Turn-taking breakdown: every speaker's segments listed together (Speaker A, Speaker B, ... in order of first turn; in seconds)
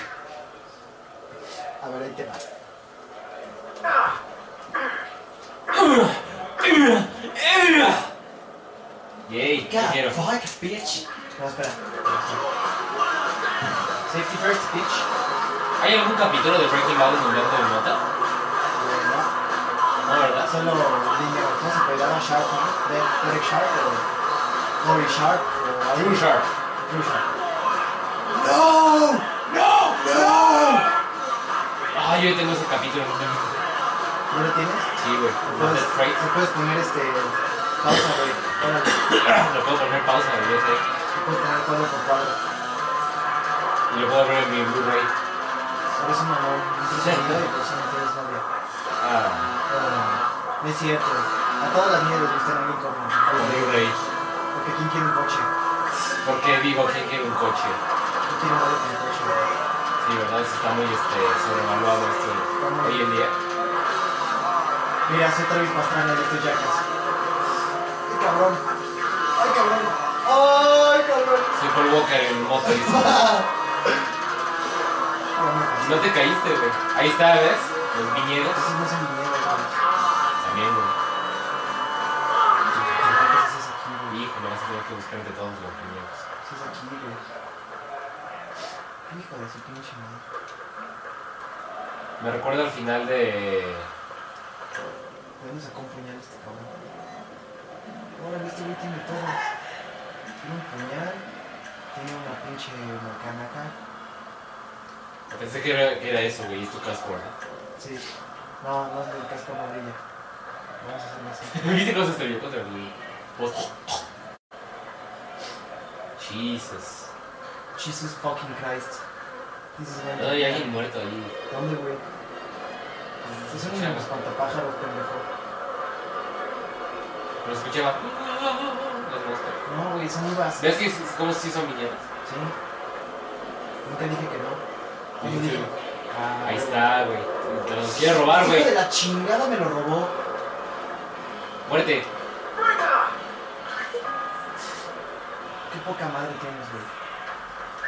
Speaker A: 1.8-2.5, 9.6-12.4, 14.1-15.1, 18.8-19.3, 20.4-24.1, 24.8-26.3, 26.8-27.3, 28.3-29.4, 30.0-30.9, 34.3-34.9, 35.4-39.0, 41.1-42.4, 45.9-48.4, 49.7-53.9, 54.5-55.5, 58.2-59.5, 62.6-63.0, 65.0-66.8, 68.0-68.6, 69.3-71.5, 72.6-73.5, 75.3-76.1, 78.5-79.7, 82.9-84.2, 86.4-87.2, 89.0-90.2, 95.4-96.7, 98.2-99.5, 100.4-101.2, 101.9-103.7, 107.8-108.0, 108.6-110.0, 110.8-111.8, 117.7-119.0, 119.7-120.7, 121.5-122.0, 123.2-125.3, 129.6-130.7, 132.2-132.6, 133.8-134.6, 135.2-136.9, 137.9-140.1, 145.7-146.9
Speaker B: 5.7-8.1, 9.3-10.2, 15.8-18.0, 20.1-20.6, 25.9-26.5, 29.5-30.8, 31.9-33.6, 35.0-36.2, 39.0-40.8, 43.9-45.1, 46.9-47.5, 49.0-49.6, 53.3-54.0, 56.2-57.8, 60.0-63.4, 71.5-73.3, 75.8-78.7, 80.4-81.0, 82.7-83.2, 84.1-86.2, 92.2-93.9, 105.3-107.3, 111.5-114.0, 116.2-117.1, 120.2-121.3, 123.2-124.1, 127.4-129.6, 130.6-132.0, 135.2-135.7, 136.4-138.7, 141.7-142.1